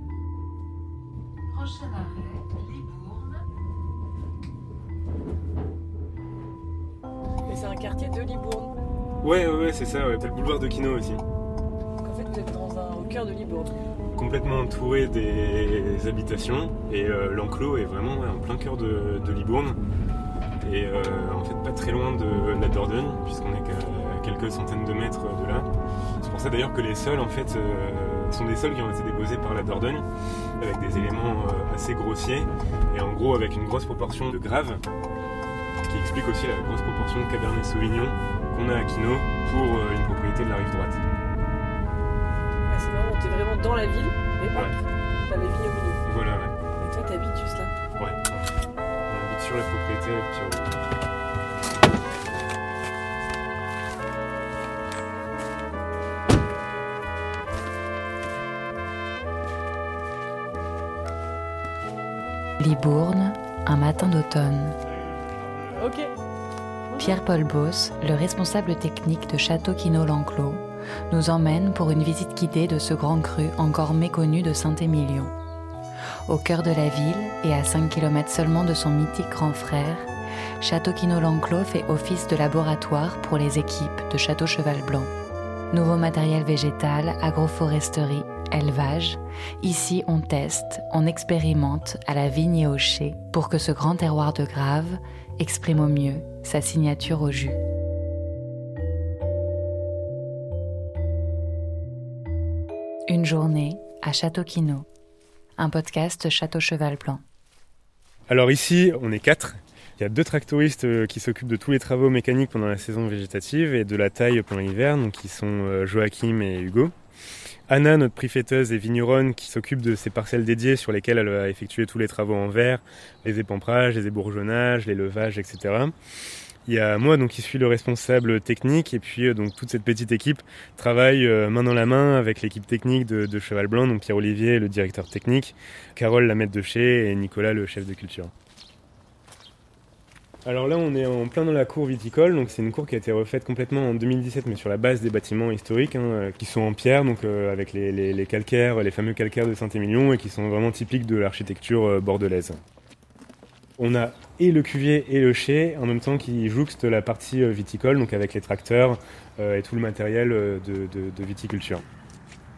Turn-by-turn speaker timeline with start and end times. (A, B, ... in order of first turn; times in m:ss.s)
0:01.5-0:03.4 A
0:07.5-0:08.7 B
0:09.2-0:11.2 C
0:12.0-0:13.7 B
0:14.1-0:19.8 C
0:20.6-0:30.1 C
0:30.6-0:34.8 C
0:35.8-0:41.0 C
0:42.7-0:44.7 B
0:45.3-0:46.0 B
0:46.0-0:46.6 C
0:46.8-0:47.7 B
0:48.0-0:48.6 C
0:49.1-0:50.8 C
1:02.6-1:04.8 A
1:05.8-1:06.1 B
1:07.0-1:15.3 A
1:16.3-1:20.1 A
1:20.6-1:25.1 A
1:25.7-1:37.6 A
1:43.1-1:44.8 A
1:45.6-1:47.2 A
1:48.3-1:56.9 C
1:57.7-2:06.0 C
2:06.7-2:18.3 C
2:20.4-2:32.6 C
2:33.8-2:41.8 C